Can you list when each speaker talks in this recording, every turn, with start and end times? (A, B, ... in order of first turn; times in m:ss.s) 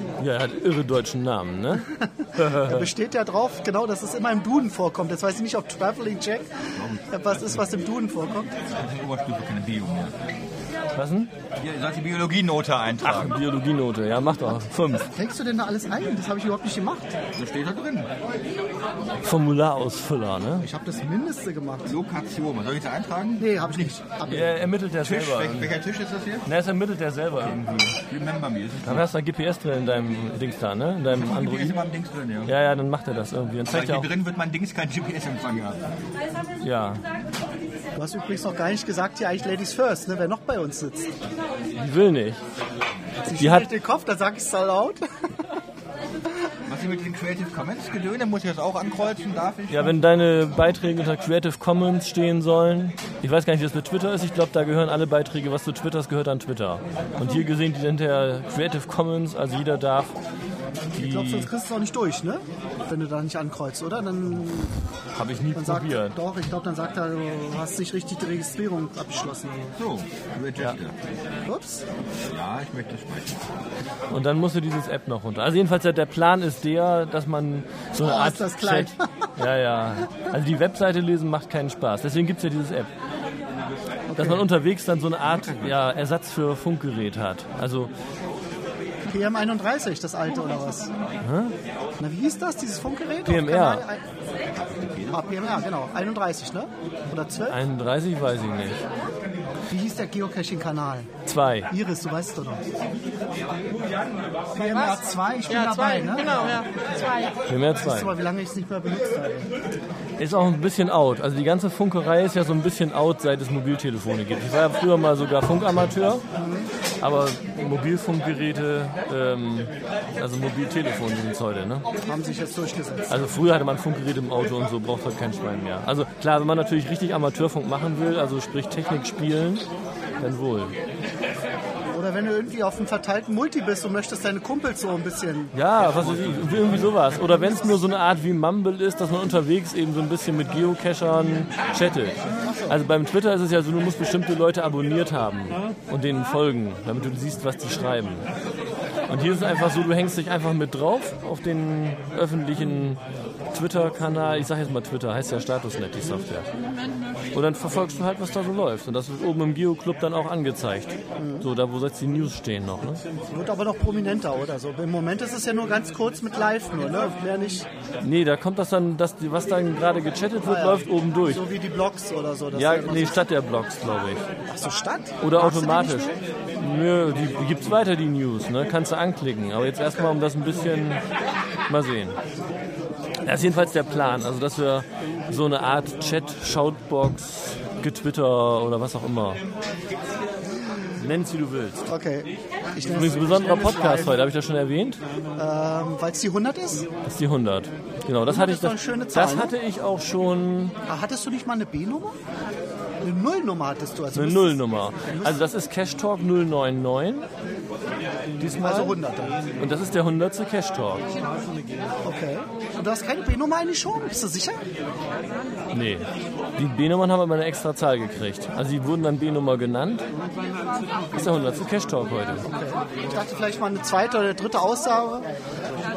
0:00.2-0:02.9 A
0:01.8-0:08.6 B
0:06.8-0:07.0 C
0:08.7-0:10.2 C
0:11.0-0:11.3 A
0:11.6-0:13.4 C
0:13.0-0:15.1 A
0:15.0-0:17.2 B
0:17.4-0:18.1 C
0:19.2-0:20.7 A
0:20.6-0:21.9 B
0:21.8-0:24.0 C
0:23.4-0:24.6 B
0:24.3-0:25.8 A
0:25.0-0:26.5 C
0:26.5-0:27.6 A
0:27.4-0:29.1 C
0:28.8-0:31.8 A
0:31.1-0:32.5 C
0:32.5-0:34.1 A
0:33.7-0:36.0 C
0:36.6-0:37.0 A
0:38.0-0:41.1 B
0:41.8-0:42.4 A
0:43.2-0:45.0 B
0:43.4-0:43.7 A
0:46.7-0:50.8 C
0:49.7-1:00.1 A
1:00.9-1:04.8 B
1:01.0-1:01.5 A
1:05.2-1:06.2 A
1:05.5-1:09.7 B
1:09.8-1:11.0 C
1:11.5-1:11.8 B
1:12.3-1:13.5 C
1:14.1-1:22.9 A
1:18.0-1:19.3 B
1:24.1-1:24.5 B
1:24.2-1:27.9 A
1:29.1-1:30.9 B
1:31.2-1:31.6 A
1:32.0-1:34.0 B
1:33.2-1:33.8 A
1:34.5-1:35.2 C
1:35.1-1:37.6 B
1:37.5-1:38.8 A
1:39.7-1:41.1 B
1:41.3-1:41.7 A
1:41.7-1:42.6 B
1:44.5-1:46.5 B
1:44.7-1:47.4 D
1:47.5-1:48.1 A
1:47.8-1:49.6 B
1:50.2-1:56.2 A
1:56.4-1:56.7 B
1:57.0-2:01.9 A
2:02.0-2:03.3 B
2:03.1-2:09.7 A
2:10.2-2:10.7 A
2:11.9-2:15.5 B
2:15.5-2:28.3 A
2:16.1-2:16.8 C
2:22.4-2:22.8 B
2:29.1-2:36.5 A
2:37.3-2:43.0 A
2:41.2-2:41.5 B
2:43.3-2:47.7 B
2:48.0-2:51.5 A
2:50.4-2:53.3 B
2:52.5-2:54.2 A
2:54.5-2:56.2 B
2:55.2-3:01.0 A
3:01.7-3:02.2 A
3:03.2-3:09.4 A
3:11.0-3:11.9 A
3:11.9-3:14.3 B
3:12.9-3:15.0 A
3:15.4-3:16.9 B
3:17.0-3:20.8 A
3:18.3-3:19.5 B
3:20.9-3:22.2 B
3:23.0-3:25.5 B
3:24.1-3:27.3 A
3:28.4-3:29.0 A
3:28.6-3:29.4 B
3:29.6-3:31.1 A
3:32.0-3:34.6 B
3:35.7-3:40.1 A
3:41.1-3:42.5 A
3:42.5-3:45.3 B